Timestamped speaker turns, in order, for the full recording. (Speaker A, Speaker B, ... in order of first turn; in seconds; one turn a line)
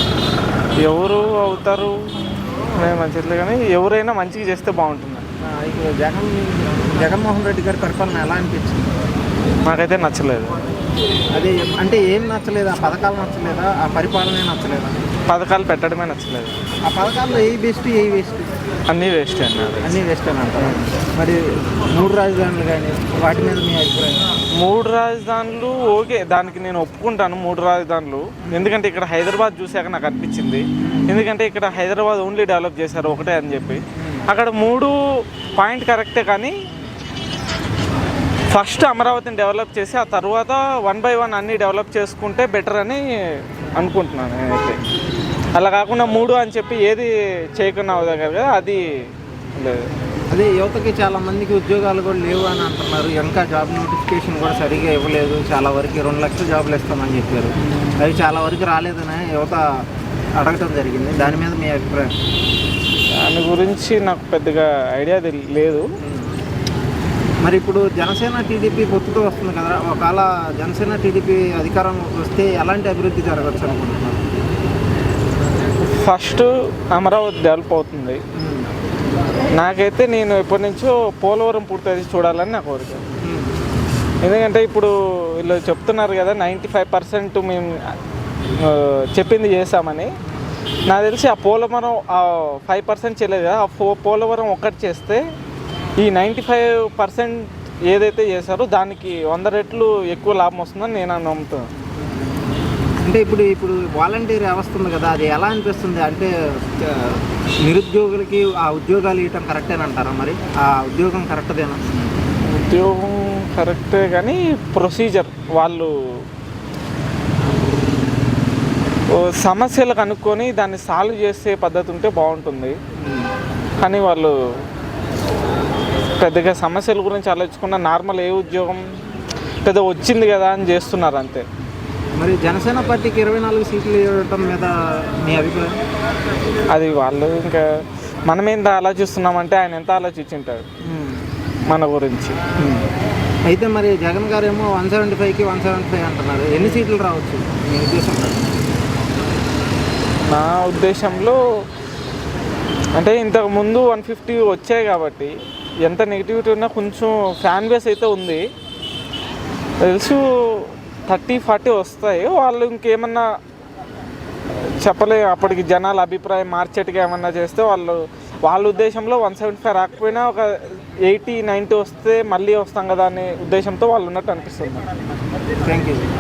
Speaker A: 0.8-5.2
Speaker B: 5.4-8.9
Speaker A: 9.6-10.6
Speaker B: 11.3-15.0
Speaker A: 15.3-16.6
Speaker B: 16.8-18.5
Speaker A: 18.9-20.0
Speaker B: 19.8-24.2
Speaker A: 24.6-36.6
Speaker B: 30.8-31.1
Speaker B: 34.0-34.2
Speaker A: 38.5-44.8
Speaker A: 45.5-48.8
Speaker A: 49.5-49.9
Speaker B: 50.3-59.8
Speaker B: 60.4-62.1
Speaker A: 63.1-65.9
Speaker B: 66.0-66.3
Speaker B: 67.4-74.2
Speaker A: 75.8-78.2
Speaker B: 78.3-78.7
Speaker A: 79.6-83.0
Speaker B: 83.2-83.5
Speaker A: 84.2-87.9
Speaker A: 88.5-90.1
Speaker A: 90.9-95.2
Speaker A: 96.0-101.7
Speaker B: 103.0-111.8
Speaker A: 112.5-115.9
Speaker A: 119.1-122.8
Speaker B: 123.0-123.3
Speaker A: 123.8-124.3
Speaker A: 126.2-128.8
Speaker A: 129.6-131.4
Speaker B: 132.2-135.8
Speaker A: 136.7-137.7
Speaker A: 138.3-140.7
Speaker B: 140.8-141.2
Speaker A: 141.7-142.5
Speaker B: 142.6-142.8
Speaker B: 143.4-148.5
Speaker A: 150.2-151.4
Speaker A: 152.9-158.4
Speaker A: 159.8-163.2
Speaker A: 164.8-174.8
Speaker B: 175.6-176.1